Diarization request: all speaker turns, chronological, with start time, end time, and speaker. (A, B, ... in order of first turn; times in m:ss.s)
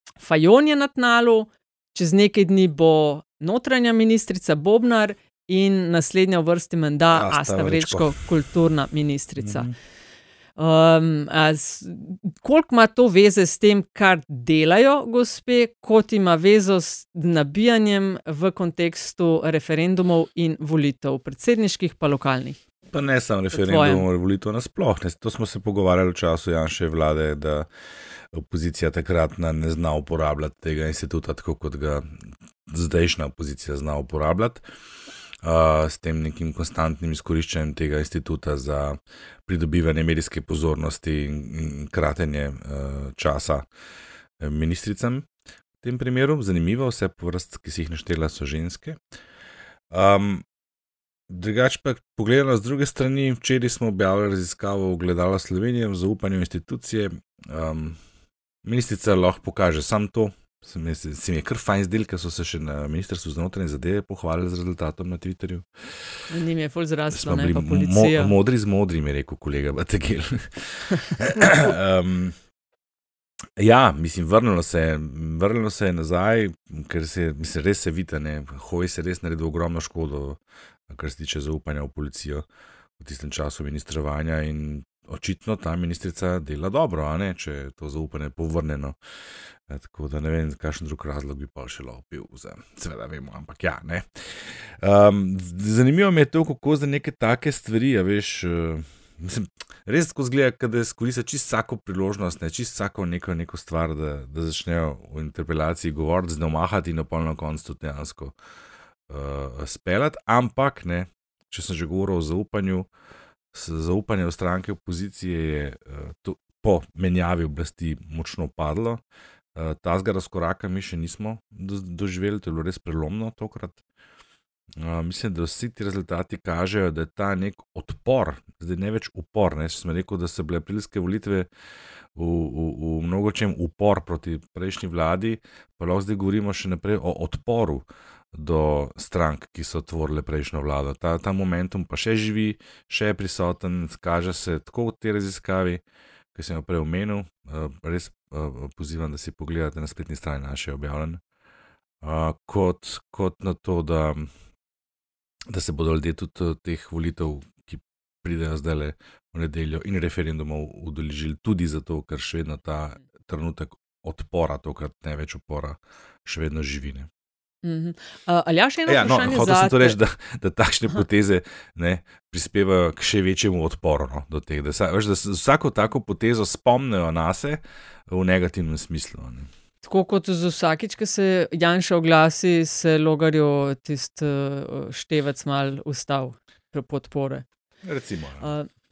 0:00.2-0:09.7 A
0:07.1-0:08.2 B
0:09.4-0:09.7 B
0:10.6-0:22.6 A
0:22.9-0:27.7 B
0:23.5-0:24.0 A
0:28.3-0:32.1 B
0:32.7-0:34.6 B
0:35.4-0:43.6 B
0:44.4-0:45.3 B
0:45.8-0:49.0 B
0:49.9-0:50.4 B
0:51.3-0:58.0 B
0:58.6-1:06.2 B
1:06.3-1:08.4 A
1:07.1-1:12.4 B
1:13.6-1:20.4 B
1:20.9-1:22.4 B
1:23.0-1:29.0 B
1:29.7-1:48.3 B
1:49.1-1:52.9 B
1:53.5-1:59.0 B
1:59.6-2:03.8 B
2:04.8-2:11.5 B
2:12.2-2:25.8 B
2:26.4-2:31.2 B
2:32.0-2:34.3 B
2:35.5-2:47.1 B
2:47.6-2:50.0 A
2:48.9-2:59.5 B
2:59.8-3:07.5 A
3:07.8-3:08.5 B
3:08.4-3:08.7 A